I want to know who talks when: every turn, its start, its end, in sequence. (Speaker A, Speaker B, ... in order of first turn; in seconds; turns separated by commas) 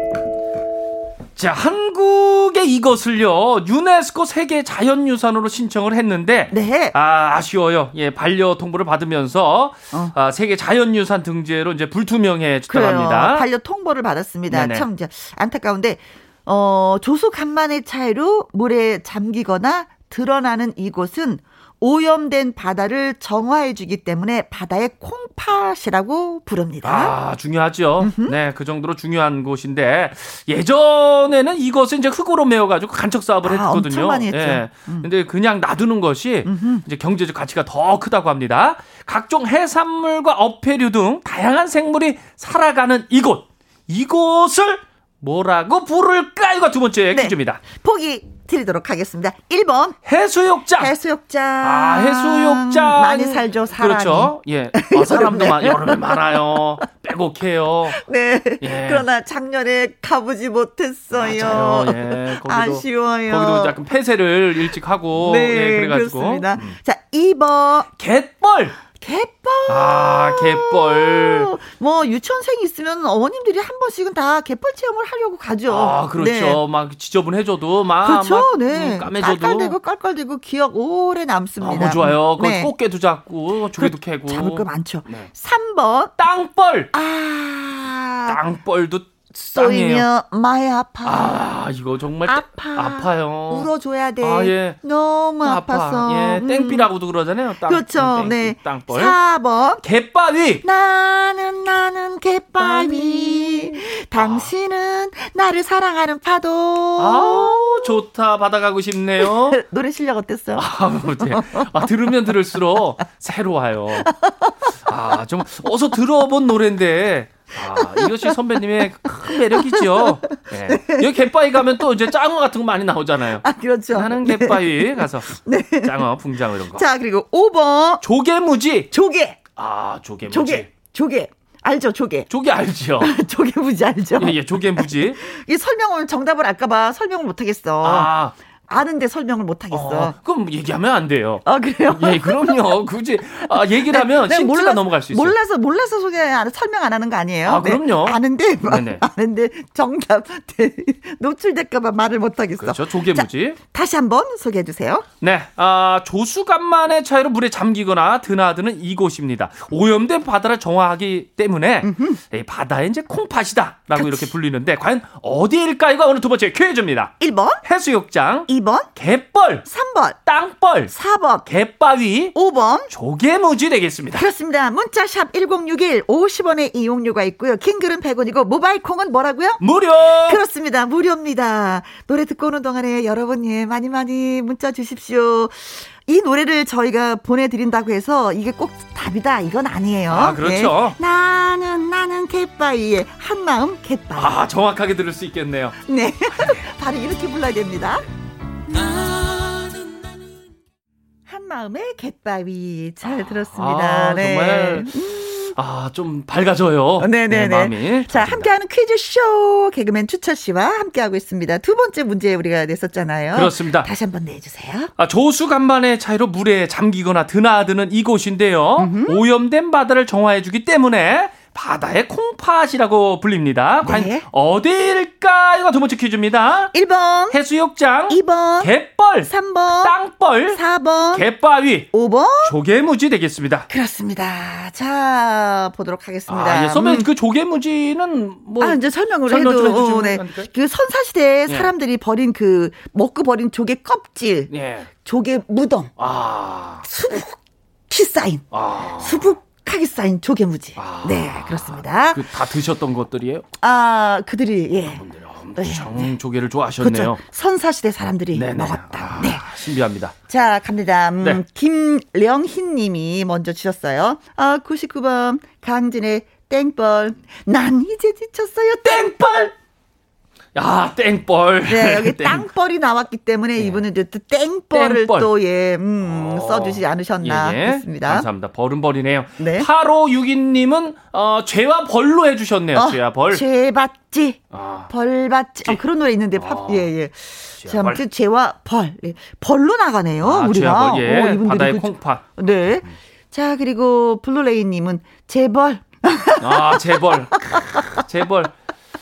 Speaker A: 1.4-13.5, Speaker B: 6.5-7.0, Speaker B: 12.7-27.1, Speaker A: 14.5-14.8, Speaker A: 26.8-47.6, Speaker B: 28.0-28.4, Speaker B: 33.4-35.1, Speaker B: 36.5-36.8, Speaker B: 47.1-50.0, Speaker A: 50.1-50.9, Speaker B: 50.8-56.6, Speaker A: 51.6-58.0, Speaker B: 57.9-63.8, Speaker A: 58.6-59.1, Speaker A: 61.1-66.8, Speaker B: 65.2-67.9, Speaker A: 68.0-68.8, Speaker B: 69.0-76.6, Speaker A: 69.7-71.5, Speaker A: 75.7-79.8, Speaker B: 78.0-82.7, Speaker A: 81.6-85.3, Speaker B: 83.8-86.1, Speaker A: 86.2-86.9, Speaker B: 86.9-88.4, Speaker A: 88.3-90.1, Speaker B: 89.3-91.5, Speaker A: 91.0-93.7, Speaker B: 92.2-96.9, Speaker A: 94.2-94.8, Speaker A: 95.4-99.2, Speaker B: 97.7-99.8, Speaker A: 99.8-100.6, Speaker B: 100.6-108.0, Speaker A: 102.6-104.5, Speaker A: 107.0-109.6, Speaker B: 109.2-111.8, Speaker A: 110.5-114.1, Speaker B: 114.0-114.5, Speaker A: 114.9-126.8, Speaker B: 117.8-118.4, Speaker B: 119.3-121.2, Speaker B: 123.4-126.0, Speaker B: 126.8-128.0, Speaker A: 128.0-128.9, Speaker B: 128.9-129.4, Speaker A: 129.6-130.7, Speaker B: 130.3-132.3, Speaker A: 132.3-133.1, Speaker B: 133.0-138.1, Speaker A: 134.2-135.2, Speaker A: 137.8-138.3, Speaker B: 138.7-140.2, Speaker A: 139.7-145.4, Speaker B: 141.4-142.6, Speaker B: 143.5-155.1, Speaker A: 147.4-149.0, Speaker A: 152.6-153.6, Speaker A: 155.2-167.1, Speaker B: 161.8-162.2, Speaker B: 163.9-164.3, Speaker B: 167.2-167.6, Speaker A: 167.6-169.7, Speaker B: 168.5-168.9, Speaker B: 169.7-170.2, Speaker A: 170.3-170.9, Speaker B: 170.9-171.5, Speaker A: 171.5-172.3, Speaker B: 172.3-172.9, Speaker A: 172.9-174.3, Speaker B: 174.1-179.6, Speaker A: 179.6-180.4, Speaker B: 180.2-194.4, Speaker A: 190.1-191.0, Speaker A: 194.2-195.8, Speaker B: 195.8-198.0, Speaker B: 198.8-199.1, Speaker A: 199.3-199.7, Speaker B: 201.3-205.6, Speaker A: 203.1-204.9, Speaker A: 205.6-208.5, Speaker B: 207.0-214.9, Speaker A: 213.3-213.9, Speaker A: 215.0-226.7, Speaker B: 218.8-219.2, Speaker B: 223.8-224.3, Speaker B: 226.7-227.4, Speaker A: 227.3-229.3, Speaker B: 228.1-228.7, Speaker B: 229.3-229.9, Speaker A: 229.8-230.6, Speaker B: 230.5-231.2, Speaker A: 231.1-231.9, Speaker B: 231.9-232.5, Speaker A: 232.4-233.7, Speaker B: 233.7-237.1, Speaker A: 236.3-240.5, Speaker B: 238.6-244.5, Speaker A: 241.5-241.7, Speaker A: 244.5-244.9, Speaker B: 245.0-245.9, Speaker A: 246.0-246.8, Speaker B: 246.8-247.4, Speaker B: 247.9-248.4, Speaker A: 248.5-249.3, Speaker B: 249.0-252.3, Speaker A: 250.8-253.5, Speaker B: 253.6-255.0, Speaker A: 254.9-257.2, Speaker B: 255.6-256.1, Speaker B: 256.8-259.6, Speaker A: 258.3-260.1, Speaker B: 260.3-269.2, Speaker A: 268.9-269.5, Speaker A: 270.6-272.5, Speaker B: 271.7-278.3, Speaker A: 273.6-273.8, Speaker A: 274.7-275.3, Speaker A: 276.0-283.4, Speaker B: 279.4-279.7, Speaker B: 282.8-298.0, Speaker A: 284.5-284.9, Speaker A: 286.4-286.9, Speaker A: 287.6-288.0, Speaker A: 290.2-292.2, Speaker A: 296.4-298.5